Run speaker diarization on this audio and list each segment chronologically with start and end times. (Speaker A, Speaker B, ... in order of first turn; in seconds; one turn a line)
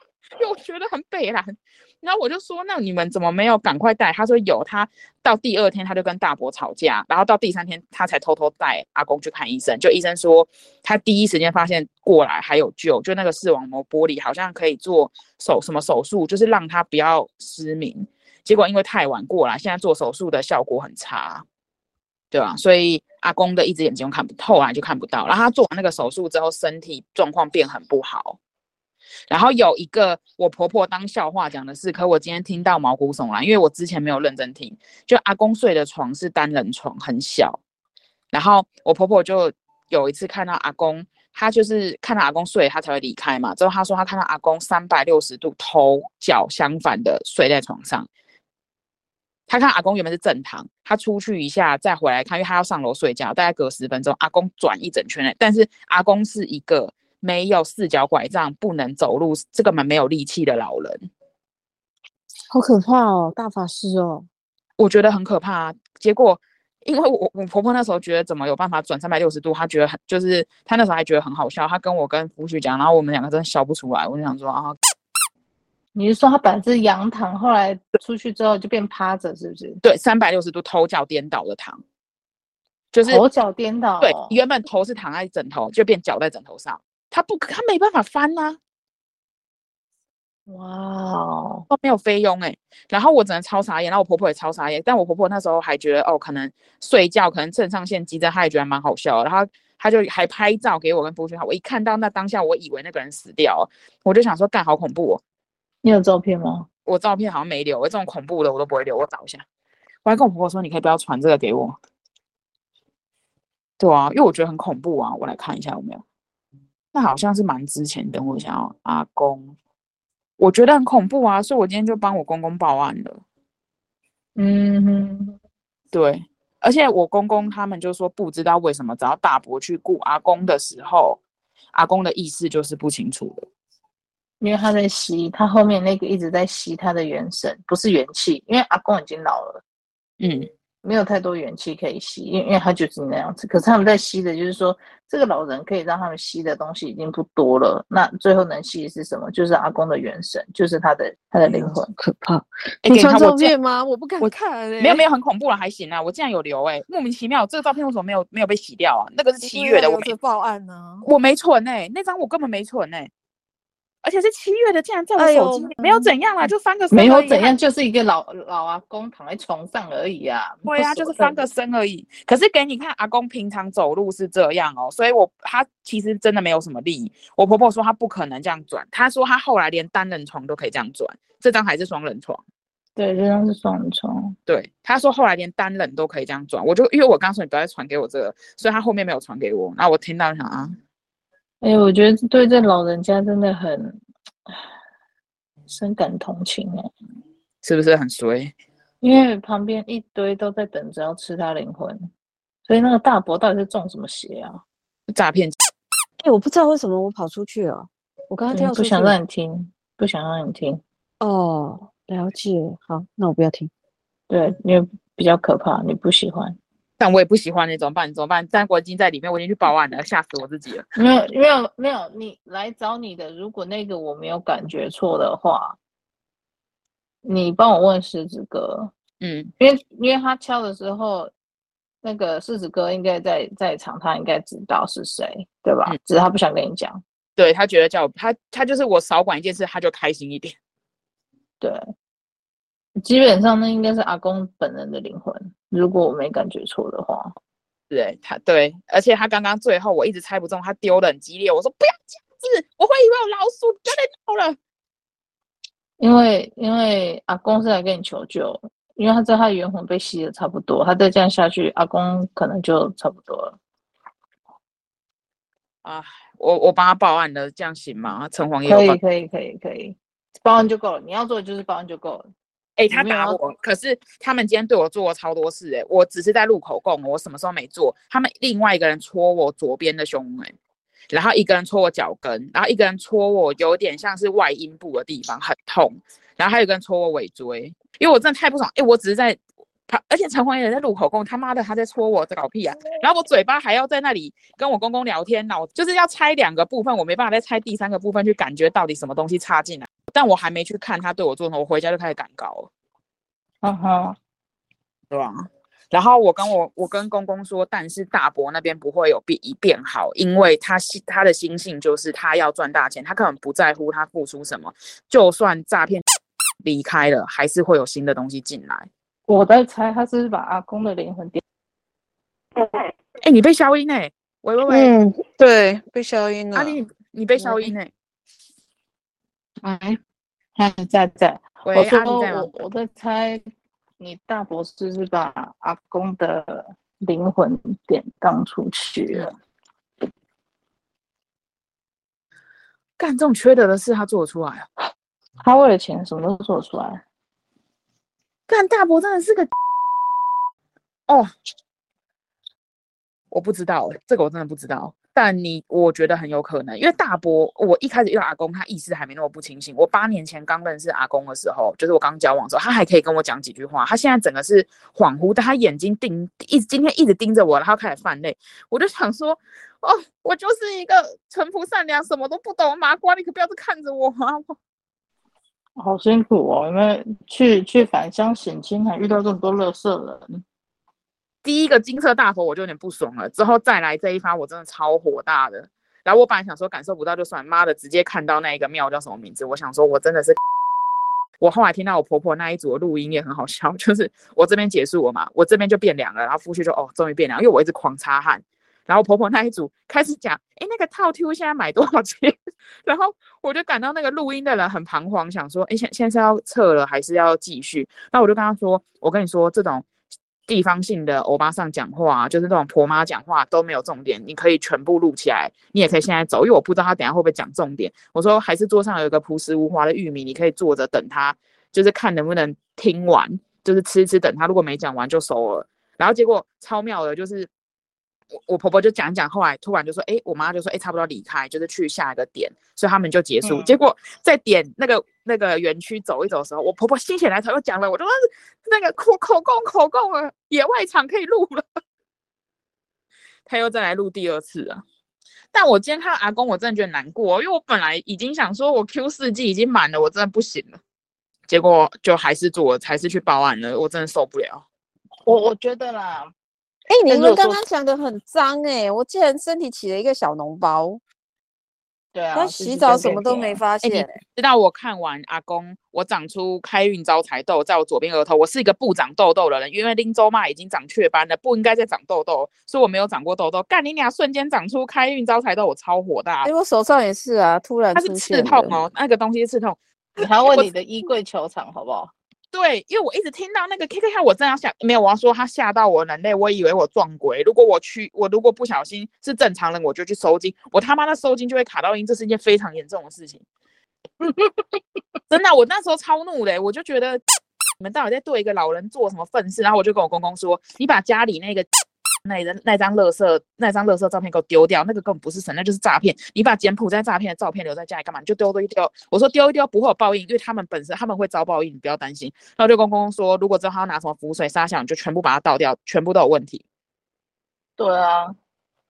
Speaker A: 0.4-21.4
Speaker A: 22.3-28.4
Speaker A: 29.3-37.6
Speaker A: 38.3-48.1
Speaker A: 49.5-61.1
Speaker B: 62.5-64.3
Speaker A: 64.8-74.8
Speaker C: 76.0-79.8
Speaker A: 79.8-81.8
Speaker A: 82.9-83.2
Speaker C: 83.1-84.3
Speaker A: 84.0-88.6
Speaker C: 90.5-91.7
Speaker A: 91.7-105.2
Speaker C: 105.8-106.7
Speaker A: 106.9-109.5
Speaker A: 110.0-111.8
Speaker A: 113.8-116.0
Speaker A: 116.9-119.5
Speaker A: 120.4-123.2
Speaker C: 124.4-125.3
Speaker A: 125.9-131.2
Speaker A: 131.7-133.5
Speaker C: 134.4-139.6
Speaker A: 140.2-140.5
Speaker C: 140.8-151.9
Speaker B: 151.4-155.0
Speaker A: 152.8-153.5
Speaker A: 154.2-160.1
Speaker B: 159.4-161.1
Speaker A: 161.0-163.1
Speaker A: 164.0-167.5
Speaker B: 165.2-166.1
Speaker C: 166.9-171.4
Speaker A: 170.7-182.4
Speaker C: 183.0-184.3
Speaker A: 184.5-190.8
Speaker C: 191.6-194.0
Speaker C: 195.7-196.9
Speaker A: 197.6-198.5
Speaker C: 199.0-202.1
Speaker C: 202.7-204.6
Speaker A: 205.1-205.6
Speaker B: 206.2-209.2
Speaker C: 208.5-210.8
Speaker B: 211.2-213.7
Speaker C: 214.3-216.6
Speaker A: 217.0-220.9
Speaker C: 221.0-225.8
Speaker C: 227.2-228.9
Speaker A: 229.2-229.5
Speaker C: 229.6-231.3
Speaker C: 232.0-237.0
Speaker A: 237.4-240.6
Speaker C: 243.0-247.3
Speaker A: 247.9-254.6
Speaker C: 256.0-263.6
Speaker A: 265.8-269.0
Speaker C: 268.7-272.3
Speaker A: 272.8-280.6
Speaker C: 272.9-273.4
Speaker A: 281.1-302.7
Speaker C: 303.6-304.2
Speaker A: 305.1-316.0
Speaker A: 316.6-318.9
Speaker C: 319.3-321.4
Speaker A: 323.2-324.9
Speaker B: 324.7-326.8
Speaker A: 326.5-327.9
Speaker B: 327.4-327.7
Speaker C: 329.6-330.0
Speaker C: 330.6-333.4
Speaker A: 331.7-332.6
Speaker C: 334.0-339.3
Speaker A: 343.0-344.7
Speaker C: 345.4-347.0
Speaker A: 348.5-349.5
Speaker A: 353.3-374.6
Speaker C: 375.8-380.4
Speaker A: 381.4-390.4
Speaker A: 391.4-409.9
Speaker A: 410.5-427.5
Speaker A: 428.4-441.6
Speaker C: 433.4-433.8
Speaker A: 443.5-444.8
Speaker A: 445.5-450.8
Speaker A: 451.5-454.6
Speaker C: 455.3-456.3
Speaker B: 456.9-461.0
Speaker C: 457.1-457.6
Speaker C: 462.1-463.6
Speaker B: 462.3-464.2
Speaker A: 463.8-476.5
Speaker B: 476.4-478.8
Speaker A: 477.9-480.7
Speaker C: 480.2-482.1
Speaker A: 482.5-493.4
Speaker C: 494.2-494.6
Speaker A: 495.3-497.2
Speaker A: 497.8-501.7
Speaker A: 502.2-516.6
Speaker C: 517.8-518.4